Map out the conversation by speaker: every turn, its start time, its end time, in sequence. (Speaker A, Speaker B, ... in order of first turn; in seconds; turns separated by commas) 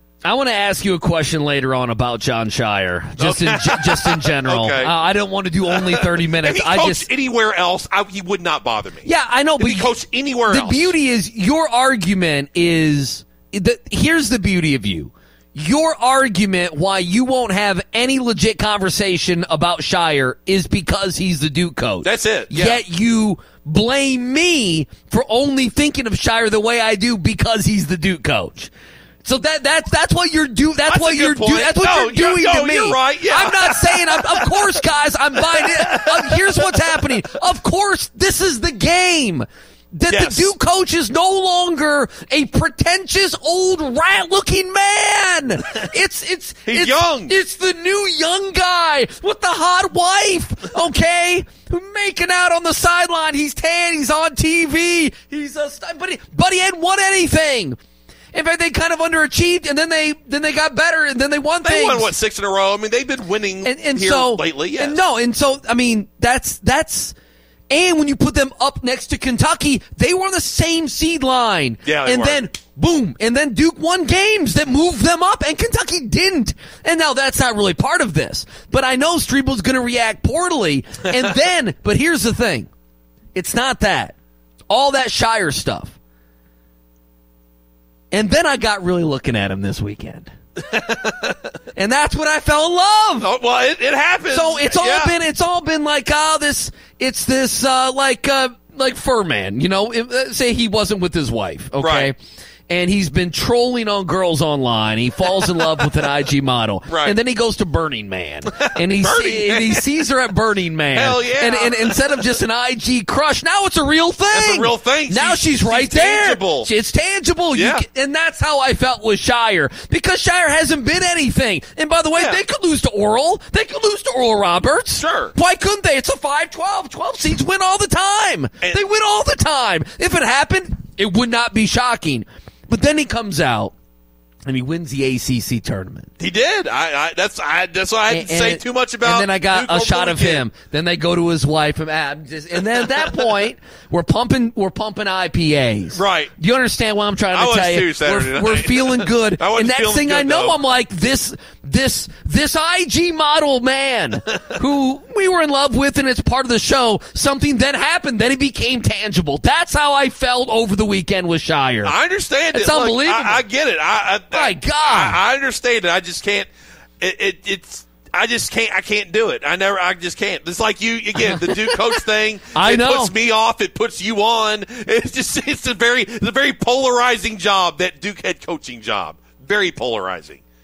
Speaker A: 0.2-7.1, Speaker B: 3.2-4.9, Speaker B: 5.7-9.1, Speaker A: 9.1-9.9, Speaker B: 9.6-10.9, Speaker A: 10.5-28.7, Speaker B: 22.0-22.8, Speaker A: 29.2-57.8, Speaker B: 30.9-34.8, Speaker B: 35.6-37.0, Speaker B: 40.1-40.5, Speaker B: 46.7-47.3, Speaker A: 58.3-62.1, Speaker B: 61.6-65.0, Speaker A: 63.6-67.1, Speaker A: 67.7-82.7, Speaker B: 71.8-72.4, Speaker A: 83.3-84.1, Speaker A: 84.7-86.0, Speaker A: 88.1-90.3, Speaker B: 90.6-91.4, Speaker A: 91.8-93.3, Speaker B: 93.2-95.1, Speaker A: 94.3-102.2, Speaker B: 101.8-102.1, Speaker A: 102.7-133.7, Speaker B: 106.9-107.2, Speaker B: 108.6-109.8, Speaker B: 110.9-112.0, Speaker B: 114.3-116.7, Speaker B: 117.5-117.8, Speaker B: 122.2-122.4, Speaker B: 125.0-125.3, Speaker A: 134.5-136.1, Speaker B: 136.2-140.5, Speaker A: 138.1-161.9, Speaker B: 145.9-146.3, Speaker B: 147.3-150.6, Speaker B: 161.8-166.5, Speaker A: 162.5-163.4, Speaker A: 164.3-165.2, Speaker B: 167.0-180.4, Speaker A: 171.2-172.0, Speaker A: 172.5-173.1